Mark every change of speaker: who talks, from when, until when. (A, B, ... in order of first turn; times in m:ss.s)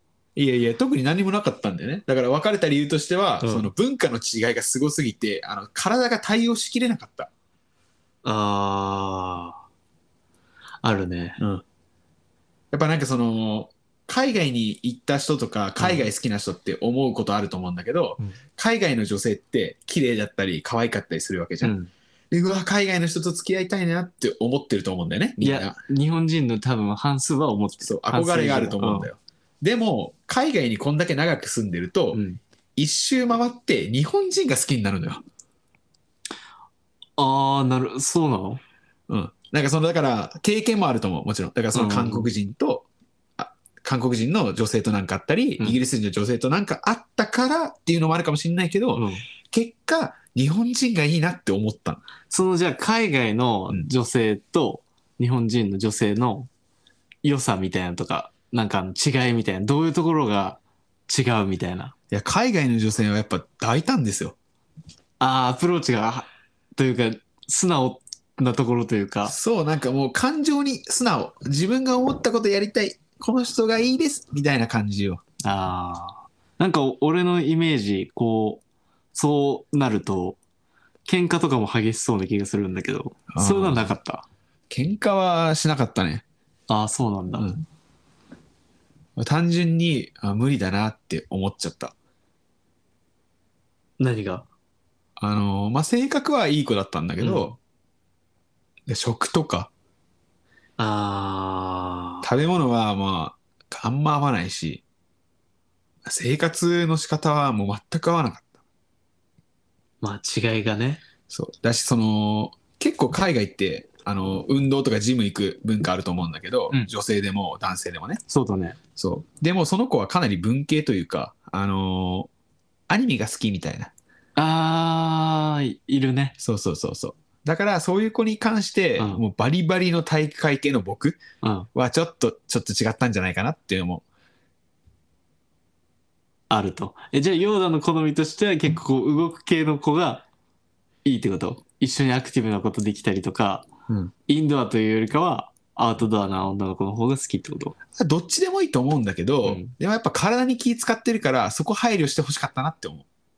0:00.4-0:07.3 A
0:03.4-0:03.7 B
0:08.2-0:09.6 B
0:10.8-0:11.4 B
0:11.4-0:11.6 A
0:12.7-0:21.7 A
0:15.8-0:16.1 B
0:21.6-0:21.9 B
0:22.3-0:25.8 A
0:25.4-0:29.1 B
0:27.8-0:32.2 A
0:32.1-0:32.4 B
0:32.8-0:35.2 A
0:37.2-0:38.6 B
0:39.1-0:42.8 A
0:41.7-0:42.3 B
0:43.4-0:52.0 A
0:48.9-0:49.2 B
0:52.3-0:56.5 B
0:57.2-1:01.9 B
1:02.1-1:04.3 A
1:05.2-1:09.3 B
1:09.2-1:15.2 A
1:15.4-1:18.6 B
1:19.1-1:20.4 B
1:21.0-1:24.2 B
1:23.3-1:23.9 A
1:24.7-1:26.2 A
1:26.7-1:27.5 B
1:27.4-1:27.6 A
1:29.2-1:31.9 A
1:34.0-1:34.4 B
1:35.2-1:37.6 A
1:37.2-1:37.5 B
1:38.9-1:39.7 A
1:40.8-1:42.2 B
1:42.2-1:44.8 A
1:46.0-1:48.5 A
1:50.0-1:51.0 B
1:51.3-1:58.2 A
1:58.3-1:58.8 B
1:59.0-2:02.3 A
2:02.9-2:03.9 A
2:04.4-2:06.3 B
2:06.4-2:11.2 A
2:09.0-2:09.2 B
2:11.4-2:11.7 B
2:11.7-2:14.0 A
2:16.5-2:20.2 B
2:21.0-2:23.7 B
2:24.2-2:27.8 B
2:28.0-2:33.0 A
2:29.4-2:29.7 B